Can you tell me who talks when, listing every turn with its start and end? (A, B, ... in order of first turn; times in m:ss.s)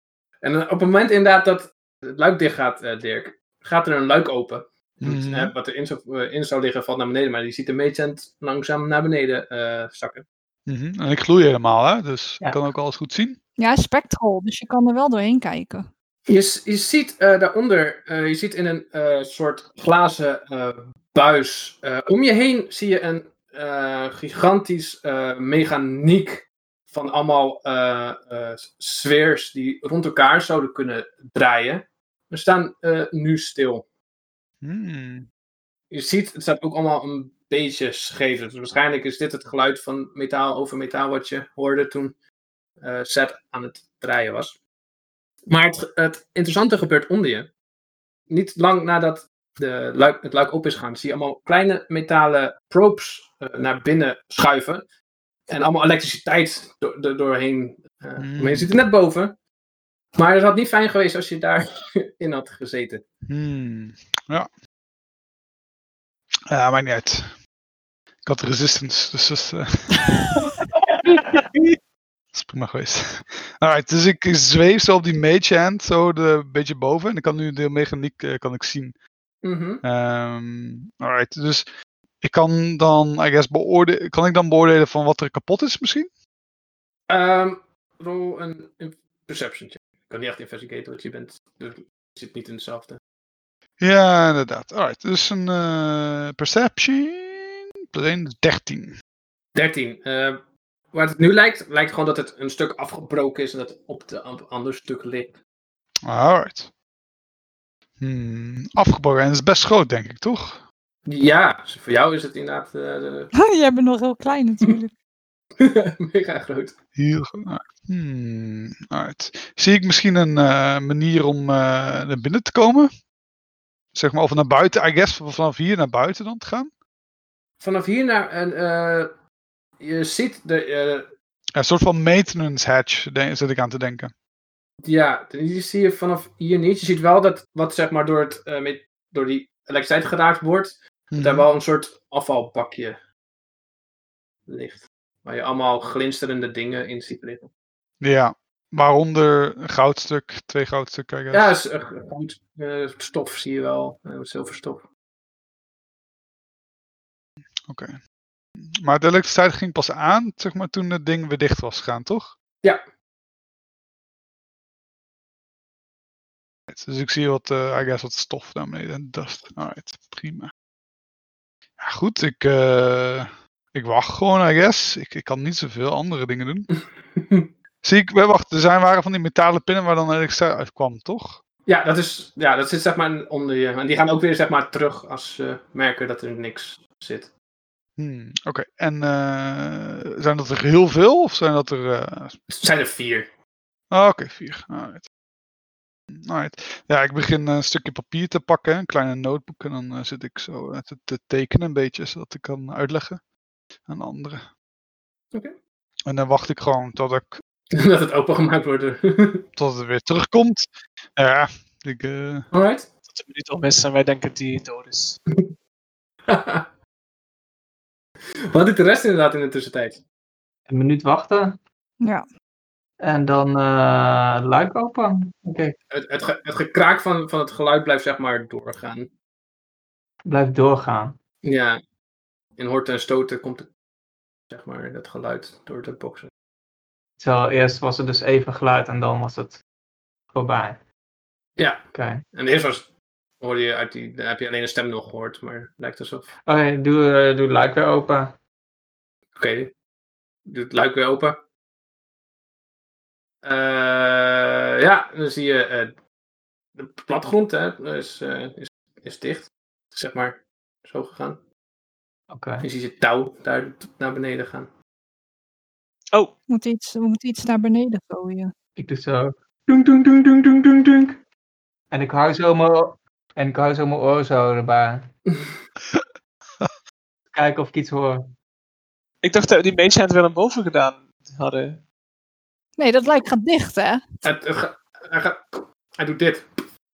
0:00.4-0:10.3 A
0:05.0-0:05.5 B
0:10.7-0:13.4 B
0:13.6-0:15.9 C
0:16.3-0:33.8 A
0:34.6-0:35.3 B
0:35.9-0:42.2 A
0:42.8-0:44.6 A
0:45.5-0:47.5 A
0:48.3-0:54.8 A
0:55.5-0:59.4 A
0:58.2-0:58.7 B
1:00.2-1:03.0 A
1:03.3-1:04.5 B
1:06.5-1:07.4 B
1:08.2-1:10.2 B
1:12.4-1:19.0 B
1:19.4-1:19.8 A
1:19.8-1:21.7 B
1:22.2-1:26.1 B
1:27.1-1:33.0 A
1:33.8-1:39.0 B
1:39.6-1:40.4 A
1:40.9-1:45.4 A
1:46.0-1:46.7 B
1:48.0-1:50.6 B
1:51.1-1:53.3 A
1:53.4-1:54.9 C
1:55.6-1:56.8 A
1:57.0-2:02.9 B
2:03.9-2:06.7 B
2:07.6-2:09.1 A
2:09.8-2:11.1 A
2:11.6-2:14.1 B
2:14.8-2:23.0 A
2:21.1-2:21.5 B
2:24.5-2:27.5 A
2:28.0-2:31.5 B
2:31.3-2:34.9 A
2:37.7-2:38.0 B
2:38.6-2:42.3 B
2:46.7-2:50.5 B
2:51.8-2:56.7 B
2:56.8-2:57.5 A
2:57.8-3:01.4 B
3:01.7-3:07.3 A
3:08.0-3:12.4 B
3:12.5-3:13.3 A
3:13.9-3:15.1 B
3:16.2-3:23.2 B
3:23.9-3:24.4 B
3:26.1-3:27.4 B
3:27.7-3:29.5 A
3:29.6-3:32.5 B
3:32.5-3:32.9 A
3:33.1-3:35.2 D
3:36.3-3:36.7 A
3:38.5-3:40.0 A
3:40.7-3:41.6 E
3:43.0-3:45.8 E
3:45.9-3:49.1 A
3:50.3-3:51.2 E
3:51.4-3:51.8 A
3:52.6-3:53.7 A
3:54.5-3:56.3 A
3:57.2-3:59.6 E
4:00.3-4:00.8 E
4:01.6-4:02.9 A
4:01.9-4:02.2 E
4:03.4-4:06.3 A
4:06.5-4:08.4 E
4:09.4-4:09.7 A
4:10.5-4:11.4 A
4:13.4-4:15.9 A
4:16.8-4:21.4 A
4:22.3-4:22.7 E
4:22.6-4:24.7 A
4:26.5-4:28.5 C
4:28.8-4:31.2 E
4:31.9-4:35.1 E
4:35.3-4:35.6 A
4:37.3-4:38.3 E
4:39.2-4:41.8 D
4:42.8-4:44.0 C
4:44.2-4:46.6 A